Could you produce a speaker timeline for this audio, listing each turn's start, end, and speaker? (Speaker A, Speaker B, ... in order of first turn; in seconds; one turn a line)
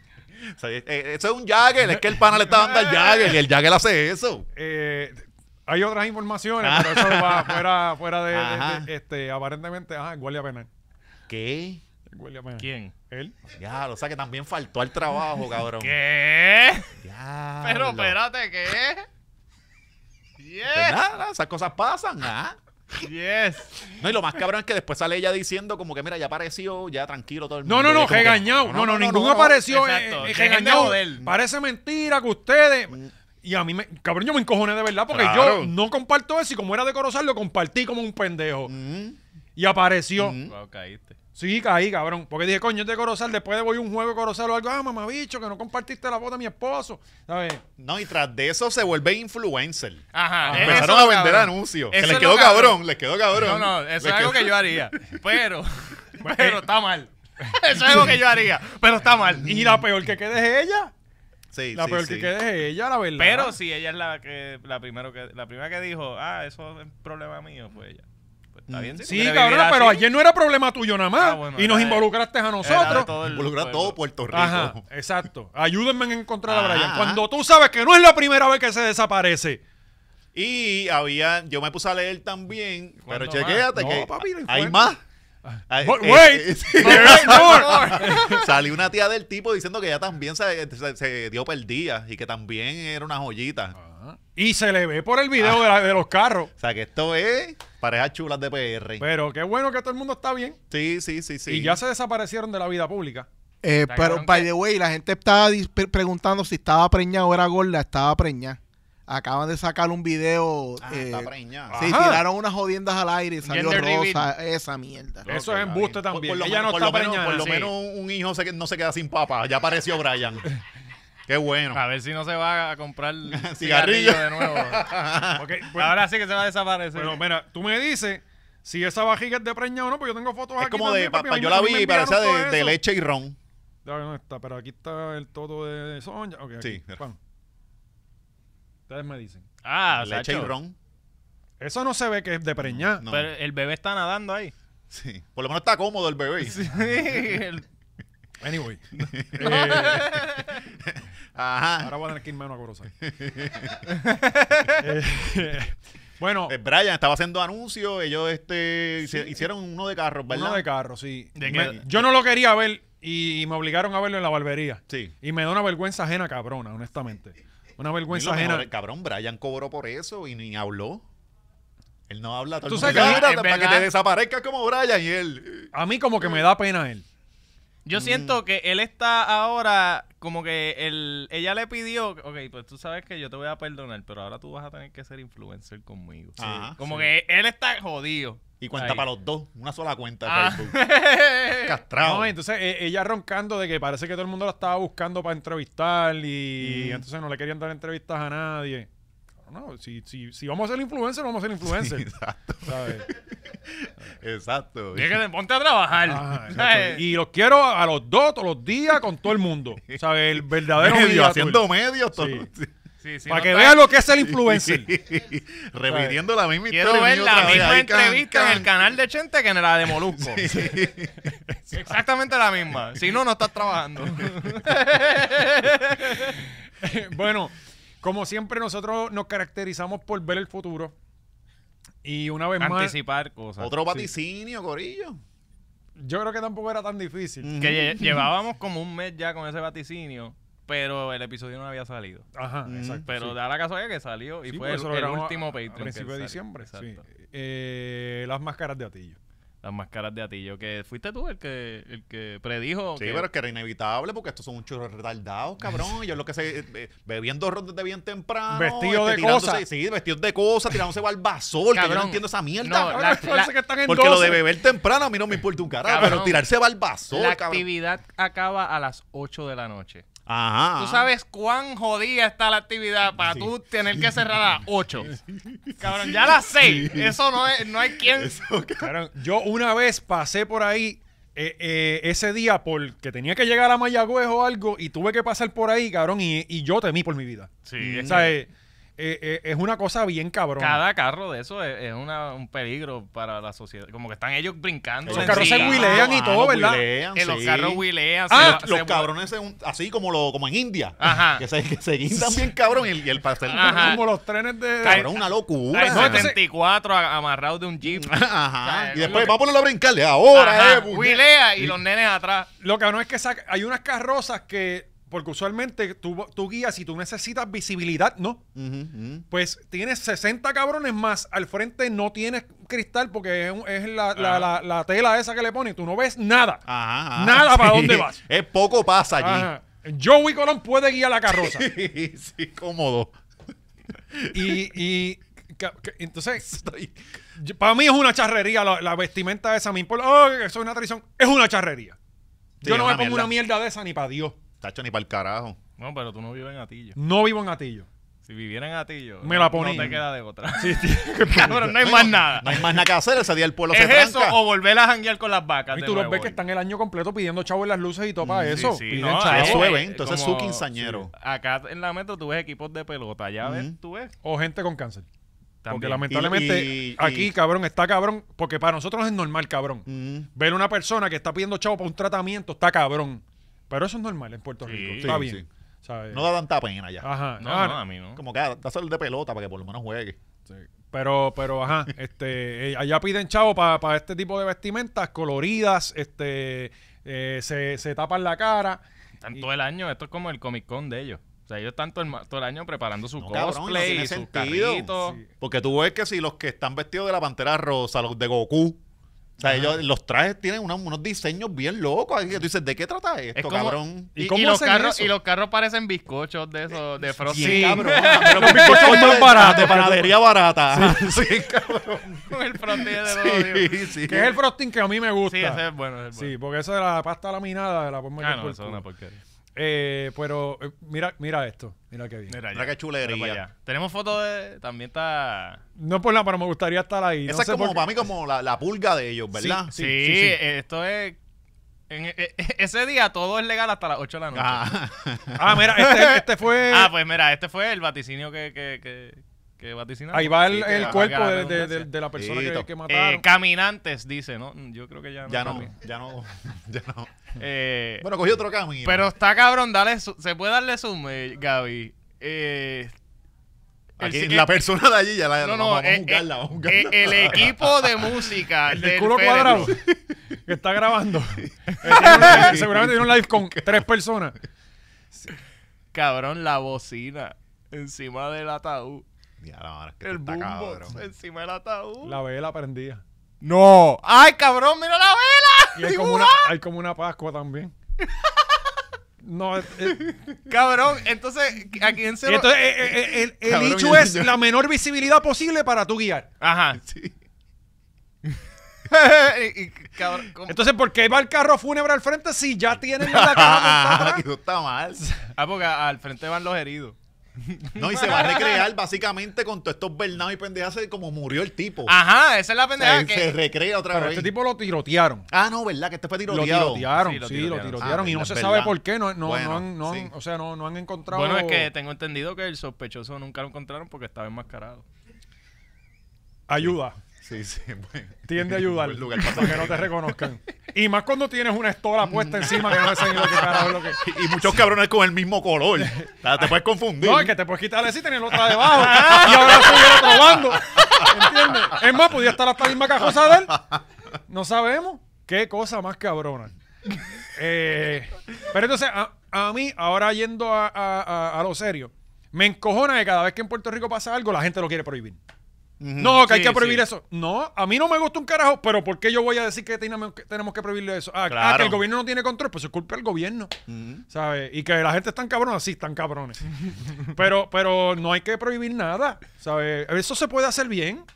Speaker A: 0.4-4.5
Speaker B: 1.9-3.0
Speaker B: 4.5-10.7
Speaker A: 6.6-7.6
Speaker A: 8.3-8.9
Speaker A: 11.3-11.8
Speaker B: 12.1-13.3
Speaker C: 12.6-12.9
Speaker A: 13.5-15.9
Speaker C: 15.8-16.9
Speaker A: 17.0-18.1
Speaker C: 17.6-19.1
Speaker C: 20.4-21.0
Speaker A: 20.7-22.6
Speaker C: 23.0-24.0
Speaker A: 24.0-29.6
Speaker B: 27.6-38.7
Speaker C: 29.7-31.2
Speaker A: 35.1-35.7
Speaker A: 38.7-39.2
Speaker B: 39.5-40.4
Speaker A: 40.1-40.5
Speaker C: 40.4-41.2
Speaker B: 41.4-47.6
Speaker A: 47.8-54.9
Speaker C: 50.1-52.8
Speaker B: 50.4-50.9
Speaker C: 53.3-59.5
Speaker B: 56.2-56.6
Speaker A: 59.4-59.8
Speaker B: 59.5-60.9
Speaker A: 61.5-62.3
Speaker B: 61.7-63.5
Speaker C: 63.2-68.0
Speaker C: 68.5-70.0
Speaker A: 68.7-69.2
Speaker B: 69.0-73.1
Speaker C: 71.2-74.0
Speaker A: 72.9-74.8
Speaker B: 74.3-79.6
Speaker A: 76.5-77.2
Speaker A: 80.3-85.0
Speaker C: 83.0-83.7
Speaker B: 83.7-84.9
Speaker B: 85.4-88.4
Speaker A: 85.7-93.8
Speaker C: 86.8-88.5
Speaker B: 93.7-96.5
Speaker A: 95.4-95.7
Speaker A: 96.6-99.0
Speaker B: 99.0-100.6
Speaker A: 100.7-101.8
Speaker B: 101.5-103.3
Speaker D: 103.6-115.2
Speaker C: 103.9-104.5
Speaker A: 110.8-111.8
Speaker B: 111.7-112.2
Speaker C: 113.4-114.3
Speaker A: 115.3-120.5
Speaker B: 115.3-117.6
Speaker C: 117.4-117.7
Speaker A: 121.3-121.8
Speaker C: 121.7-124.8
Speaker A: 123.3-125.5
Speaker B: 125.3-126.0
Speaker C: 125.7-127.2
Speaker B: 126.9-132.8
Speaker A: 130.6-133.4
Speaker B: 133.8-137.2
Speaker A: 136.6-137.0
Speaker B: 138.9-139.4
Speaker C: 139.6-140.5
Speaker A: 139.9-140.8
Speaker B: 141.6-143.1
Speaker A: 142.6-143.3
Speaker C: 143.1-144.5
Speaker A: 144.9-146.7
Speaker C: 146.4-147.6
Speaker B: 148.4-150.1
Speaker A: 149.1-149.9
Speaker C: 149.4-150.6
Speaker A: 150.8-151.9
Speaker B: 151.8-152.9
Speaker A: 153.0-153.9
Speaker C: 153.9-154.8
Speaker B: 154.8-156.5
Speaker A: 156.5-160.6
Speaker B: 160.3-168.7
Speaker C: 161.3-161.8
Speaker A: 161.4-162.0
Speaker A: 168.1-171.0
Speaker A: 172.1-175.7
Speaker B: 172.7-173.2
Speaker C: 172.8-173.9
Speaker B: 175.7-177.0
Speaker C: 177.8-189.0
Speaker A: 177.9-178.4
Speaker A: 186.4-186.8
Speaker A: 188.6-190.8
Speaker C: 190.2-191.8
Speaker A: 191.5-192.3
Speaker B: 192.0-198.9
Speaker A: 196.6-197.0
Speaker B: 199.4-202.1
Speaker A: 201.6-205.2
Speaker B: 202.7-203.1
Speaker C: 204.9-207.0
Speaker B: 206.1-212.5
Speaker A: 209.9-212.7
Speaker C: 213.0-213.9
Speaker B: 213.3-214.9
Speaker A: 214.1-218.7
Speaker C: 216.7-220.5
Speaker A: 220.1-221.3
Speaker C: 221.7-226.3
Speaker B: 226.8-230.9
Speaker B: 232.0-232.9
Speaker C: 232.6-233.7
Speaker A: 233.6-235.2
Speaker B: 236.0-237.5
Speaker A: 237.4-238.3
Speaker C: 237.6-242.2
Speaker B: 242.3-243.3
Speaker A: 242.7-243.1
Speaker C: 243.1-247.0
Speaker B: 244.5-249.2
Speaker C: 249.6-253.3
Speaker A: 253.0-263.1
Speaker B: 258.5-259.6
Speaker C: 261.7-263.5
Speaker B: 262.8-264.4
Speaker A: 263.9-267.6
Speaker C: 265.8-266.4
Speaker C: 267.1-270.0
Speaker A: 270.2-271.1
Speaker C: 270.8-275.1
Speaker A: 275.1-277.2
Speaker C: 275.8-278.4
Speaker A: 277.9-278.9
Speaker B: 278.8-287.5
Speaker C: 287.6-288.3
Speaker A: 287.8-288.3
Speaker B: 288.0-290.8
Speaker C: 290.6-296.1
Speaker A: 295.1-304.0
Speaker B: 295.1-296.8
Speaker C: 297.1-299.1
Speaker B: 298.3-298.6
Speaker C: 301.0-301.4
Speaker B: 302.1-302.4
Speaker C: 303.4-304.1
Speaker B: 303.6-305.0
Speaker A: 304.8-306.3
Speaker C: 304.8-309.4
Speaker B: 305.9-306.4
Speaker A: 307.8-311.7
Speaker C: 310.3-312.5
Speaker B: 312.6-318.4
Speaker A: 318.5-319.2
Speaker B: 319.3-328.2
Speaker C: 324.1-324.5
Speaker A: 326.7-329.5
Speaker B: 329.2-331.7
Speaker A: 331.3-333.2
Speaker A: 334.1-334.7
Speaker B: 334.3-336.5
Speaker A: 336.4-337.0
Speaker B: 337.4-342.0
Speaker A: 342.6-343.3
Speaker B: 342.6-344.4
Speaker A: 344.6-345.6
Speaker C: 345.8-347.0
Speaker B: 346.9-347.9
Speaker C: 348.3-352.8
Speaker B: 349.2-350.0
Speaker B: 350.6-351.7
Speaker A: 351.6-354.4
Speaker C: 353.7-356.4
Speaker B: 355.7-359.7
Speaker A: 358.2-361.1
Speaker C: 358.5-364.1
Speaker A: 363.4-363.7
Speaker B: 364.2-365.1
Speaker C: 365.6-366.1
Speaker B: 365.7-376.2
Speaker A: 366.1-367.3
Speaker A: 369.9-370.3
Speaker C: 374.6-375.2
Speaker A: 375.0-375.4
Speaker A: 376.1-377.1
Speaker B: 377.0-377.8
Speaker C: 377.4-378.2
Speaker A: 378.1-380.2
Speaker B: 380.5-388.8
Speaker C: 389.2-395.2
Speaker A: 393.2-398.8
Speaker B: 395.0-395.3
Speaker A: 399.4-404.1
Speaker B: 399.4-399.7
Speaker C: 403.3-409.7
Speaker B: 404.1-405.1
Speaker A: 407.2-414.3
Speaker B: 407.3-410.2
Speaker B: 410.7-411.2
Speaker C: 412.3-413.7
Speaker B: 414.0-415.6
Speaker C: 415.2-416.3
Speaker B: 416.1-418.8
Speaker C: 418.2-419.2
Speaker B: 419.6-422.4
Speaker C: 422.3-425.6
Speaker A: 422.5-423.4
Speaker B: 425.8-427.9
Speaker A: 427.2-429.7
Speaker B: 429.4-430.4
Speaker C: 429.7-431.2
Speaker C: 431.9-434.7
Speaker A: 434.3-435.6
Speaker B: 435.4-436.9
Speaker C: 435.8-441.9
Speaker B: 440.1-443.2
Speaker A: 440.7-441.1
Speaker A: 442.1-442.7
Speaker C: 442.9-445.7
Speaker A: 445.2-447.1
Speaker C: 447.4-448.1
Speaker A: 448.0-449.1
Speaker C: 448.8-452.9
Speaker C: 454.0-454.5
Speaker A: 454.0-458.3
Speaker C: 455.4-459.7
Speaker B: 458.7-459.7
Speaker A: 459.4-460.0
Speaker B: 460.5-464.4
Speaker A: 461.4-463.9
Speaker C: 461.9-462.5
Speaker C: 465.9-469.0
Speaker A: 469.4-471.0
Speaker C: 470.0-472.2
Speaker B: 472.0-473.0
Speaker C: 473.4-476.5
Speaker B: 475.7-477.7
Speaker B: 479.2-480.0
Speaker C: 479.9-482.6
Speaker B: 482.2-486.3
Speaker A: 483.3-484.4
Speaker C: 486.4-486.8
Speaker A: 486.8-487.1
Speaker C: 488.9-490.6
Speaker B: 490.5-494.2
Speaker A: 493.0-495.1
Speaker C: 495.4-498.6
Speaker A: 497.7-502.0
Speaker C: 501.9-503.3
Speaker A: 502.8-504.3
Speaker B: 503.9-505.3
Speaker A: 505.3-506.9
Speaker B: 506.3-511.7
Speaker C: 506.9-507.9
Speaker A: 507.8-510.1
Speaker C: 511.1-514.8
Speaker B: 516.5-517.0
Speaker A: 516.6-520.1
Speaker B: 518.3-524.0
Speaker A: 522.0-527.4
Speaker B: 525.8-526.1
Speaker B: 527.0-533.5
Speaker A: 528.3-531.8
Speaker C: 528.7-530.1
Speaker A: 533.2-533.8
Speaker B: 534.3-536.5
Speaker B: 537.3-545.2
Speaker A: 545.8-546.3
Speaker B: 546.0-553.5
Speaker C: 546.2-546.8
Speaker A: 551.3-551.8
Speaker A: 553.7-554.0
Speaker B: 554.1-561.0